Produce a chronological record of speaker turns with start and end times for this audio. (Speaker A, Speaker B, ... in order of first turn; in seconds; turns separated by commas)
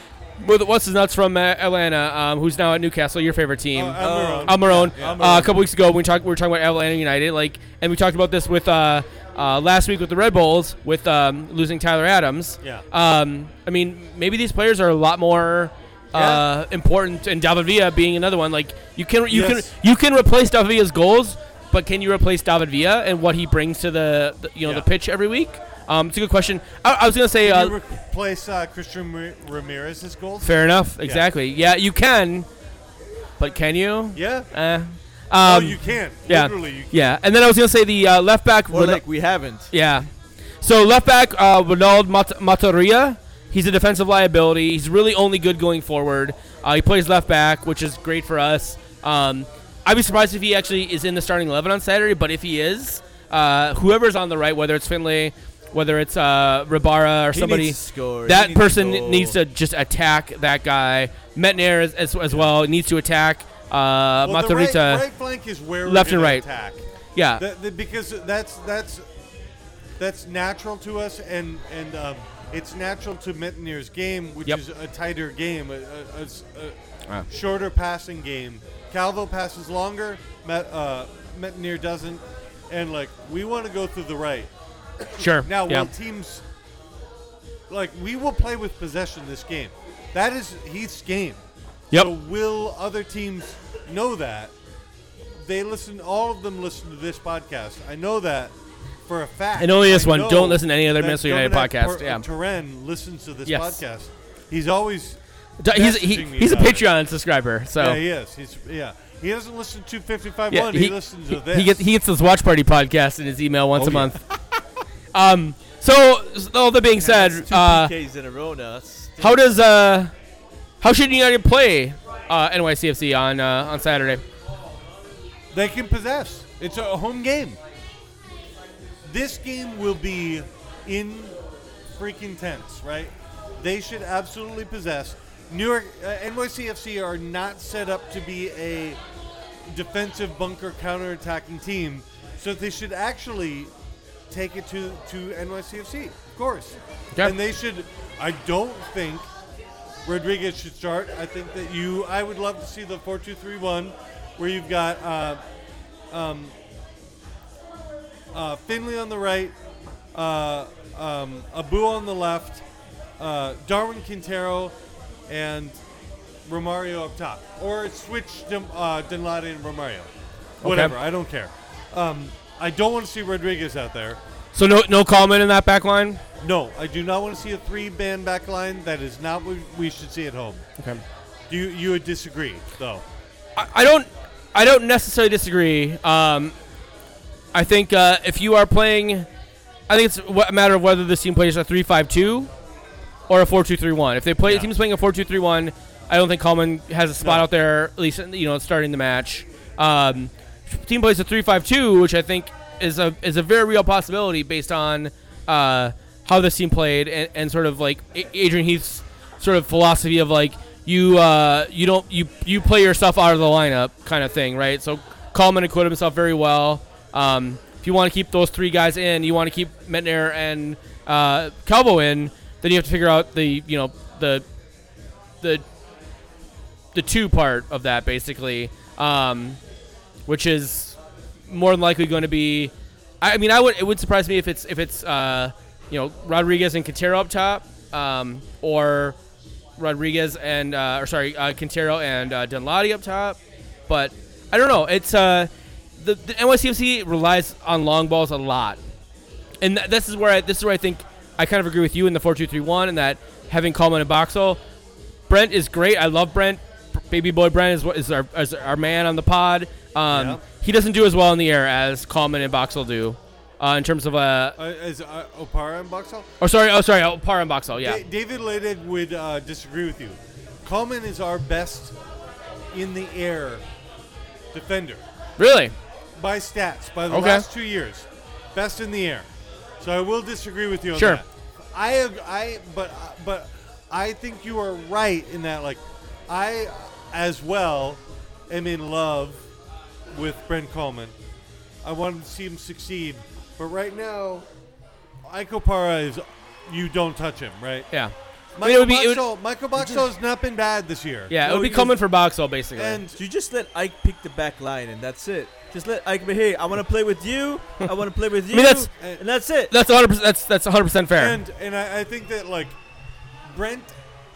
Speaker A: 0.4-27.7, Speaker B: 3.7-5.3, Speaker C: 4.0-5.6, Speaker B: 16.1-16.4, Speaker B: 19.3-19.7, Speaker B: 27.4-31.3, Speaker A: 30.4-32.5, Speaker A: 33.4-39.0, Speaker B: 34.1-34.5, Speaker B: 35.4-37.1, Speaker C: 38.7-39.7, Speaker A: 39.7-40.1, Speaker A: 40.6-65.0, Speaker C: 57.3-59.4, Speaker B: 64.2-66.8, Speaker A: 65.8-66.5, Speaker A: 67.1-67.4, Speaker B: 67.4-69.1, Speaker B: 70.0-76.8, Speaker B: 77.3-84.5, Speaker A: 85.2-85.9, Speaker B: 85.2-86.4, Speaker B: 87.7-94.5, Speaker B: 95.3-106.9, Speaker A: 99.6-102.2, Speaker A: 103.5-103.8, Speaker A: 105.6-108.0, Speaker B: 107.8-111.8, Speaker A: 110.5-114.2, Speaker B: 113.8-114.2, Speaker A: 115.1-117.9, Speaker C: 117.0-119.4, Speaker A: 119.2-120.1, Speaker A: 120.8-124.2, Speaker B: 125.5-127.6, Speaker B: 129.0-131.4, Speaker B: 131.9-139.0, Speaker B: 139.7-143.7, Speaker B: 144.3-149.3, Speaker B: 150.1-155.4, Speaker B: 156.1-156.6, Speaker B: 158.3-159.6, Speaker B: 160.1-162.6, Speaker B: 163.2-164.7, Speaker B: 165.3-165.8, Speaker B: 166.4-170.1, Speaker A: 170.6-170.9, Speaker B: 170.6-174.2, Speaker A: 174.5-176.2, Speaker B: 176.4-180.7, Speaker B: 181.5-183.1, Speaker A: 183.6-186.6, Speaker A: 187.5-189.3, Speaker A: 189.9-192.5, Speaker A: 193.3-224.4, Speaker B: 194.4-194.7, Speaker B: 197.2-197.5, Speaker A: 226.9-229.6, Speaker A: 230.3-231.0, Speaker A: 231.5-239.2, Speaker A: 239.8-248.8, Speaker A: 249.6-254.6, Speaker A: 255.3-264.6, Speaker B: 260.1-260.4, Speaker B: 264.6-266.3, Speaker A: 266.4-268.0, Speaker B: 267.8-271.9, Speaker B: 272.7-273.6, Speaker B: 274.5-275.0, Speaker A: 275.4-275.7, Speaker B: 276.2-289.4, Speaker A: 277.1-277.4, Speaker A: 280.9-281.2, Speaker B: 290.1-291.1, Speaker B: 291.8-294.5, Speaker B: 295.2-297.9, Speaker A: 297.9-299.2, Speaker B: 298.6-302.0, Speaker A: 301.3-303.0, Speaker B: 302.7-303.2, Speaker C: 303.2-309.7, Speaker A: 308.5-308.9, Speaker A: 309.7-311.4, Speaker B: 311.2-312.8, Speaker B: 313.4-314.0